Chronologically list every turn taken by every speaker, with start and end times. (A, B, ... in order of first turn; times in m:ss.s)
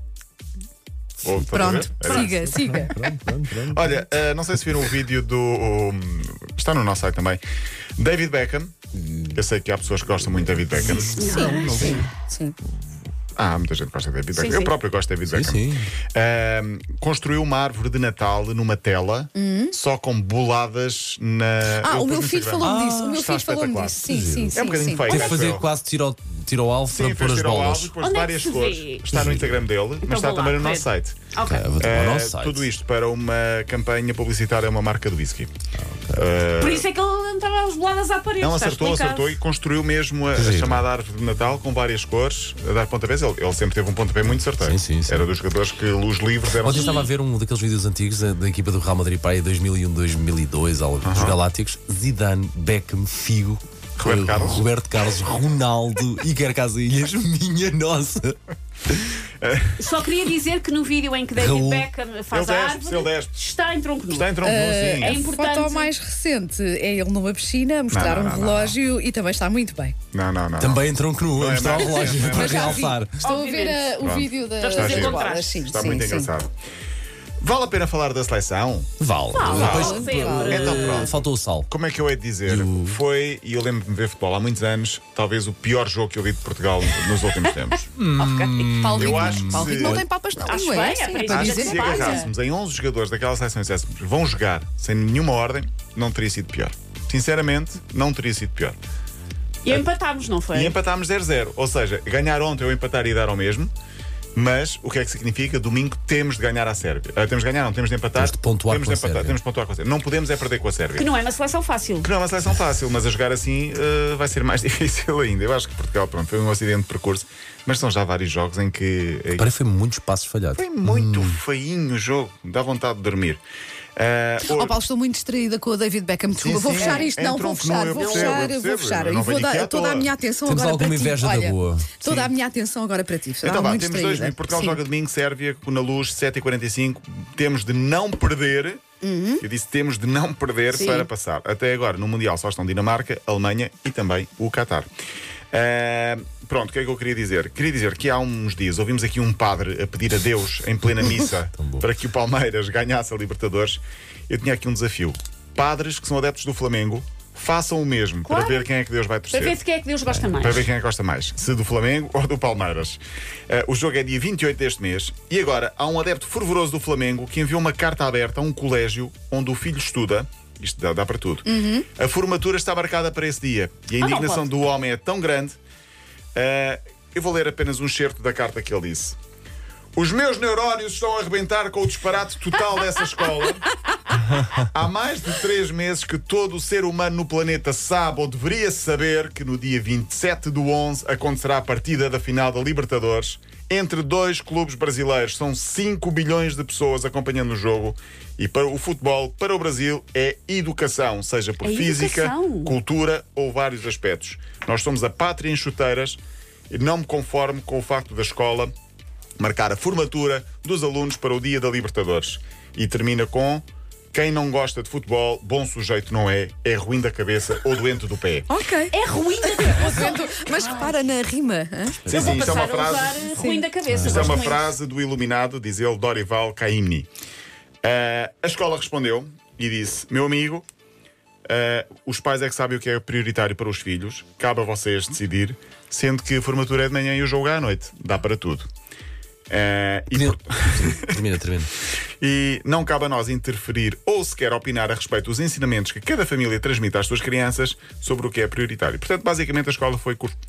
0:01.2-0:02.3 A
0:01.5-0:03.0 B
0:02.0-0:04.0 C
0:03.7-0:07.4 A
0:08.0-0:08.7 A
0:08.9-0:09.4 C
0:09.3-0:11.3 A
0:10.2-0:12.0 C
0:10.9-0:12.1 D
0:11.2-0:12.6 B
0:13.4-0:25.7 A
0:14.3-0:14.7 D
0:15.3-0:15.9 C
0:19.3-0:19.7 B
0:21.8-0:25.3 B
0:22.6-0:23.2 C
0:24.1-0:27.9 C
0:26.9-0:35.5 A
0:28.0-0:29.2 D
0:29.1-0:29.6 C
0:30.0-0:31.7 D
0:31.4-0:32.7 C
0:35.8-0:36.3 C
0:36.1-0:36.9 A
0:36.6-0:39.4 D
0:38.4-0:46.9 A
0:40.3-0:40.8 C
0:44.3-0:45.3 C
0:46.6-0:59.1 C
0:46.6-0:47.1 D
0:51.0-0:51.4 A
0:54.0-0:54.7 A
0:59.4-0:59.8 A
0:59.8-1:04.4 D
1:01.4-1:01.9 C
1:02.3-1:03.3 A
1:04.1-1:05.2 A
1:04.4-1:10.0 B
1:05.0-1:05.9 D
1:07.9-1:08.8 A
1:10.1-1:12.9 A
1:10.6-1:13.2 C
1:11.8-1:16.3 B
1:13.2-1:14.0 D
1:14.0-1:16.5 A
1:14.6-1:15.7 D
1:17.4-1:18.9 A
1:19.0-1:21.7 C
1:19.3-1:21.2 D
1:19.5-1:20.8 B
1:19.5-1:21.2 A
1:21.7-1:30.0 A
1:22.4-1:23.0 C
1:28.2-1:28.8 D
1:28.3-1:30.0 C
1:28.7-1:32.2 B
1:30.4-1:32.3 D
1:31.3-1:38.8 A
1:39.6-1:40.8 D
1:40.5-1:43.7 A
1:44.3-1:51.1 A
1:48.2-1:49.4 C
1:51.0-1:52.1 D
1:52.0-1:59.5 A
1:59.4-2:01.4 C
2:00.5-2:03.4 A
2:04.0-2:04.8 A
2:04.4-2:14.8 B
2:06.4-2:10.1 A
2:06.8-2:07.1 D
2:08.0-2:08.4 D
2:10.4-2:12.0 C
2:12.0-2:12.3 A
2:13.4-2:18.8 A
2:19.0-2:19.4 B
2:19.4-2:24.9 A
2:20.7-2:21.1 D
2:25.5-2:39.6 A
2:31.6-2:31.8 C
2:38.2-2:38.7 D
2:39.3-2:40.6 D
2:40.4-2:55.6 A
2:51.4-2:51.8 B
2:54.0-2:54.4 D
2:56.3-2:59.2 A
3:00.0-3:03.7 A
3:04.6-3:28.7 A
3:21.6-3:22.8 D
3:29.4-3:38.5 A
3:38.5-3:42.0 B
3:38.9-3:41.0 D
3:42.0-3:42.6 C
3:42.0-3:43.3 A
3:42.1-3:44.7 D
3:43.3-3:43.7 B
3:43.9-3:44.4 C
3:43.9-3:47.1 A
3:47.8-3:50.6 A
3:51.5-3:58.7 A
3:59.5-4:01.2 A
4:00.1-4:01.7 C
4:02.2-4:10.4 A